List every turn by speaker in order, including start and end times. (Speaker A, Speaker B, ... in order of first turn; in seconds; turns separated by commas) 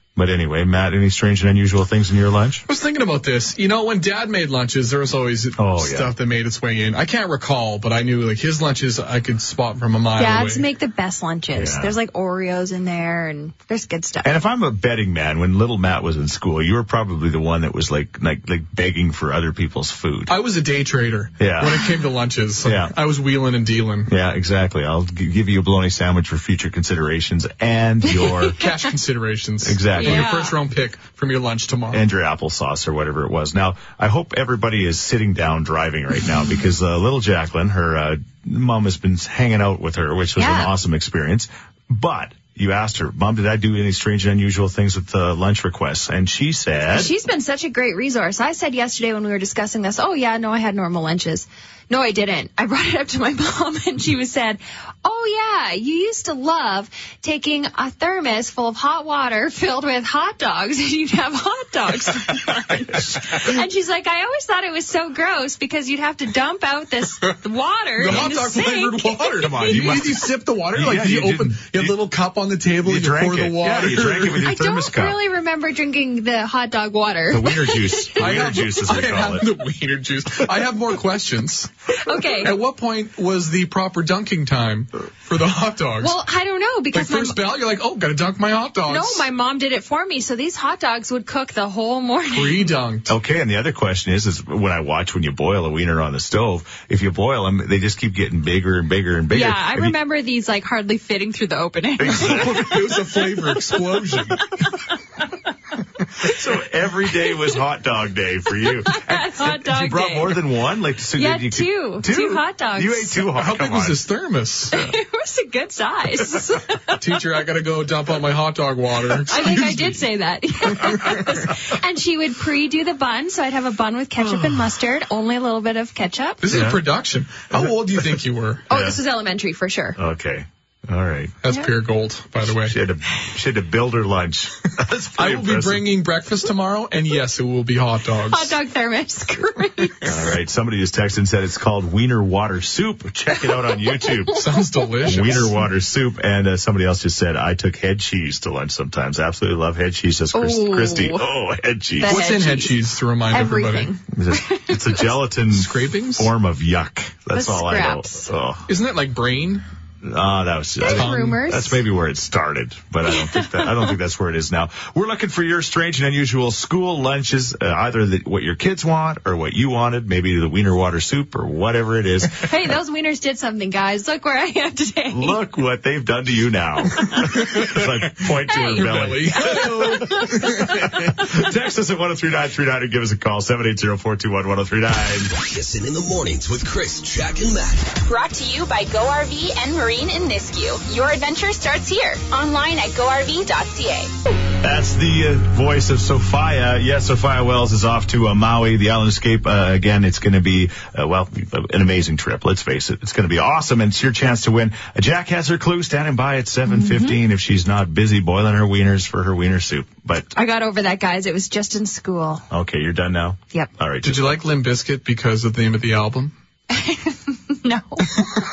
Speaker A: 0.1-2.6, Speaker B: 2.7-10.7, Speaker A: 5.6-6.1, Speaker C: 10.1-14.3, Speaker A: 11.5-12.0, Speaker A: 14.2-20.3, Speaker B: 20.3-24.1, Speaker A: 21.4-21.9, Speaker A: 22.6-22.9, Speaker A: 24.1-28.6, Speaker C: 28.3-28.7, Speaker B: 28.6-32.0, Speaker A: 29.6-30.3, Speaker C: 29.9-30.6, Speaker A: 31.9-47.1, Speaker C: 40.4-40.7, Speaker C: 46.9-69.9, Speaker B: 68.0-74.5, Speaker A: 68.0-68.3, Speaker A: 69.3-72.0, Speaker A: 72.8-75.2, Speaker C: 74.4-78.3, Speaker A: 77.3-79.5, Speaker B: 78.2-81.7, Speaker C: 82.0-82.6, Speaker B: 82.4-86.2, Speaker C: 86.0-87.4, Speaker B: 86.9-89.2, Speaker C: 88.9-92.7, Speaker B: 92.3-93.1, Speaker A: 93.1-100.0, Speaker C: 99.3-102.7, Speaker A: 102.0-102.8, Speaker B: 102.1-104.5, Speaker A: 106.2-114.0, Speaker C: 108.7-110.5, Speaker C: 111.1-113.3, Speaker B: 113.3-114.7, Speaker C: 114.7-117.1, Speaker B: 117.0-120.0, Speaker C: 119.2-126.4, Speaker B: 120.7-121.2, Speaker B: 126.4-128.7, Speaker A: 126.5-126.8, Speaker C: 128.7-130.0, Speaker A: 128.7-129.0, Speaker A: 130.0-131.4, Speaker B: 131.4-132.7, Speaker C: 131.5-131.7, Speaker A: 132.4-135.9, Speaker B: 135.2-138.6, Speaker C: 138.3-140.2, Speaker A: 140.0-144.4, Speaker C: 144.1-145.5, Speaker B: 144.3-145.5, Speaker A: 145.0-152.2, Speaker C: 150.3-151.3, Speaker C: 152.0-155.2, Speaker B: 152.0-153.9, Speaker A: 154.1-158.7, Speaker B: 155.5-156.3, Speaker C: 157.3-158.3, Speaker B: 158.7-159.6, Speaker A: 160.0-172.7, Speaker C: 160.8-161.8, Speaker B: 160.9-161.4, Speaker C: 163.1-163.9, Speaker C: 172.4-175.4, Speaker A: 175.1-180.1, Speaker B: 177.2-181.1, Speaker C: 178.5-180.4, Speaker A: 180.7-185.3, Speaker D: 185.3-187.9, Speaker E: 188.0-194.1, Speaker A: 194.6-210.3, Speaker C: 206.7-207.2, Speaker C: 210.3-212.4, Speaker A: 212.5-214.4, Speaker B: 214.0-216.3, Speaker C: 216.7-218.3